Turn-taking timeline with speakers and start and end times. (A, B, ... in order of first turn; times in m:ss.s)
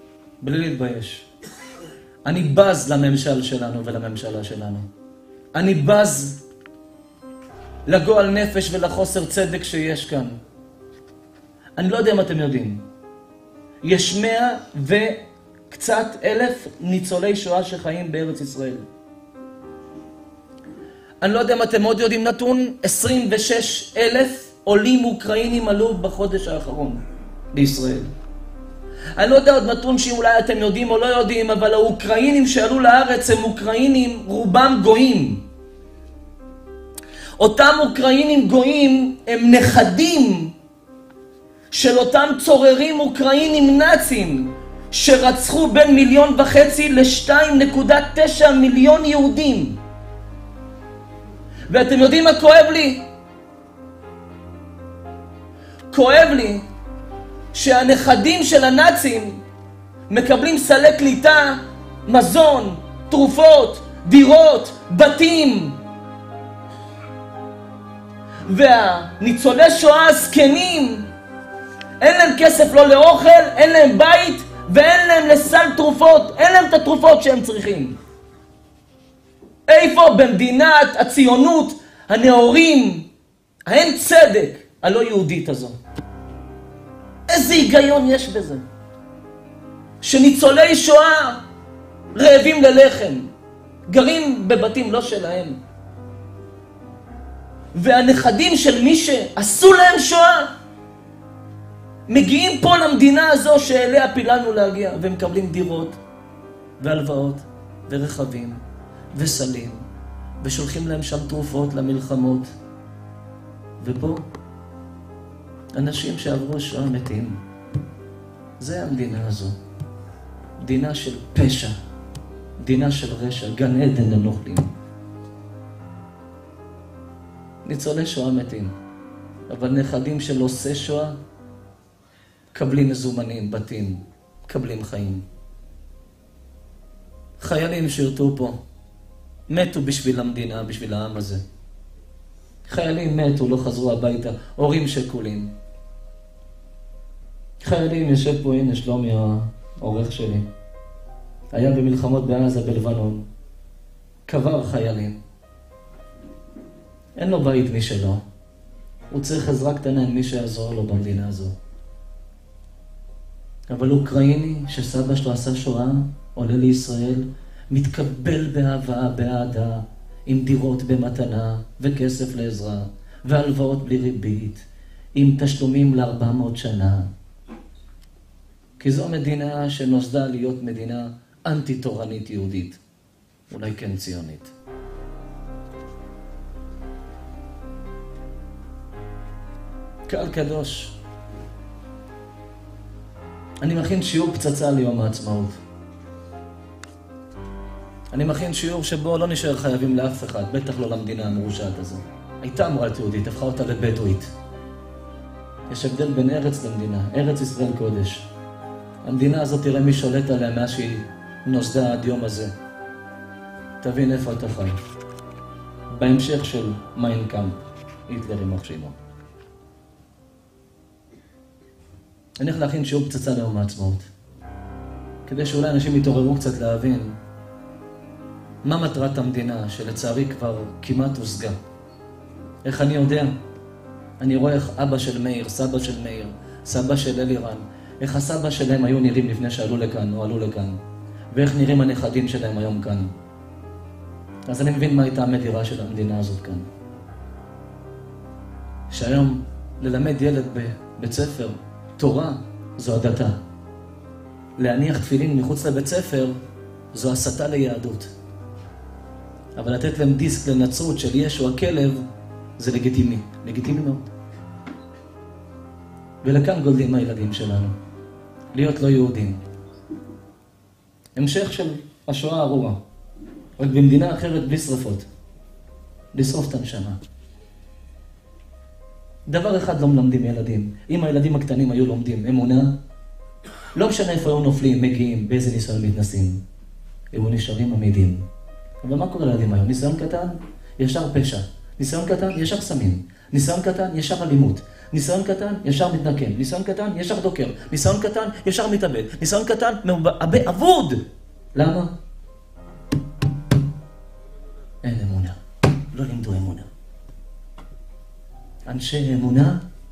0:00.4-0:01.3 A
0:02.2-0:04.9 A
0:05.5-0:06.4 A
0:07.9-0:10.4 A
0:11.8-0:12.8 A
0:13.8-0:18.9 A
0:21.2-0:27.0 A
0:27.5-0:28.1 A
0:29.2-0:35.4 A
0:37.4-0:40.5 A
0:41.7-0:49.8 A
0:51.7-0:53.0 A
0:55.9-0:56.6 A
0:57.5-0:59.4 A
1:00.1-1:05.8 A
1:08.5-1:11.1 A
1:12.0-1:18.0 A
1:19.7-1:23.1 A
1:23.7-1:25.8 A
1:27.3-1:28.6 A
1:30.0-1:31.4 A
1:32.1-1:33.3 A
1:33.9-1:35.6 A
1:37.7-1:40.5 A
1:42.1-1:46.0 A
1:46.8-1:48.6 A
1:49.1-1:49.8 A
1:50.4-1:52.5 A
1:53.8-1:54.2 A
1:55.7-1:57.4 A
1:58.6-1:59.6 A
2:00.6-2:01.8 A
2:02.6-2:04.7 A
2:07.6-2:08.7 A
2:09.5-2:11.2 A
2:12.5-2:15.2 A
2:17.4-2:18.6 A
2:19.5-2:21.4 A
2:22.7-2:25.5 A
2:27.6-2:30.5 A
2:31.5-2:33.2 A
2:34.3-2:35.2 A
2:37.2-2:38.2 A
2:39.1-2:41.5 A
2:43.7-2:57.1 A
2:58.8-3:02.8 A
3:03.5-3:04.5 A
3:10.1-3:11.0 A
3:13.6-3:15.6 A
3:18.1-3:24.3 A
3:25.7-3:28.3 A
3:29.0-3:32.5 A
3:33.8-3:34.8 A
3:35.9-3:39.0 A
3:42.4-3:44.1 A
3:45.3-3:47.1 A
3:48.6-3:51.6 A
3:52.6-3:53.3 A
3:54.2-4:00.8 A
4:01.3-4:03.1 A
4:04.5-4:06.7 A
4:08.9-4:13.4 A
4:14.6-4:16.4 A
4:16.9-4:18.1 A
4:19.6-4:22.0 A
4:22.6-4:24.1 A
4:26.2-4:27.7 A
4:28.5-4:29.4 A
4:31.2-4:32.8 A
4:33.6-4:35.1 A
4:36.1-4:37.0 A
4:39.3-4:42.7 A
4:43.8-4:46.4 A
4:47.1-4:48.2 A
4:48.8-5:01.0 A
5:01.5-5:01.9 A
5:04.8-5:05.4 A
5:05.9-5:06.7 A
5:08.7-5:09.6 A